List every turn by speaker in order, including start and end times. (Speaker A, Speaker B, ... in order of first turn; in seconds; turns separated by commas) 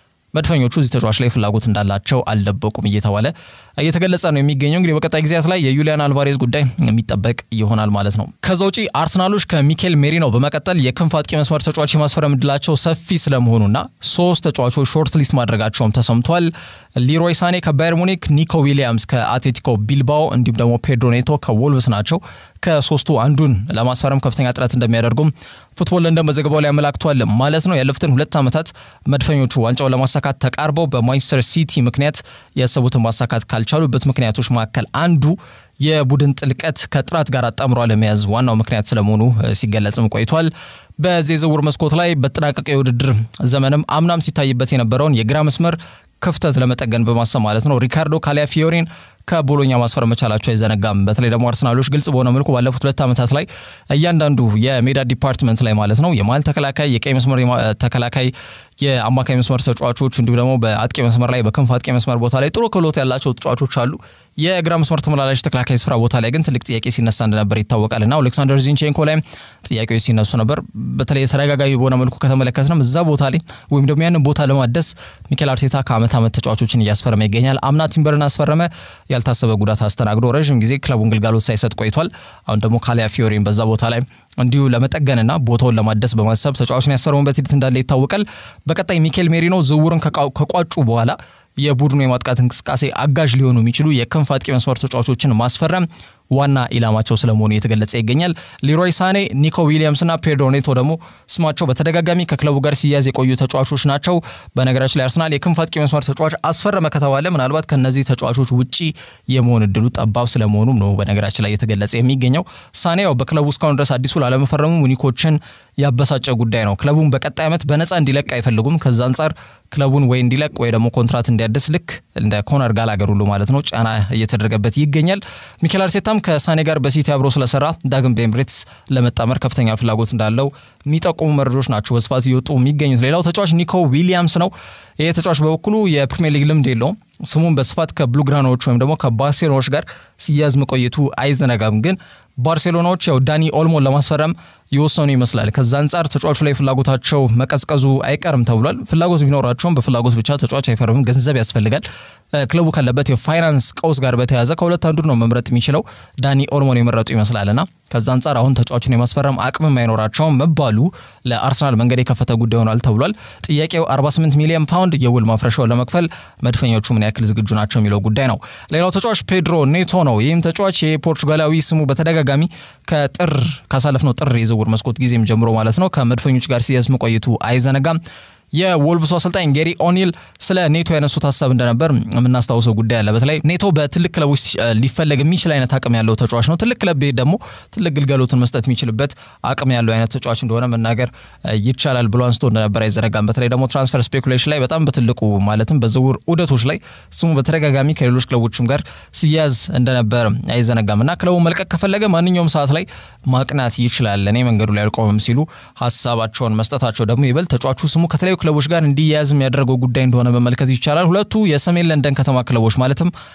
Speaker A: 0.3-178.0, Speaker A: 178.5-213.1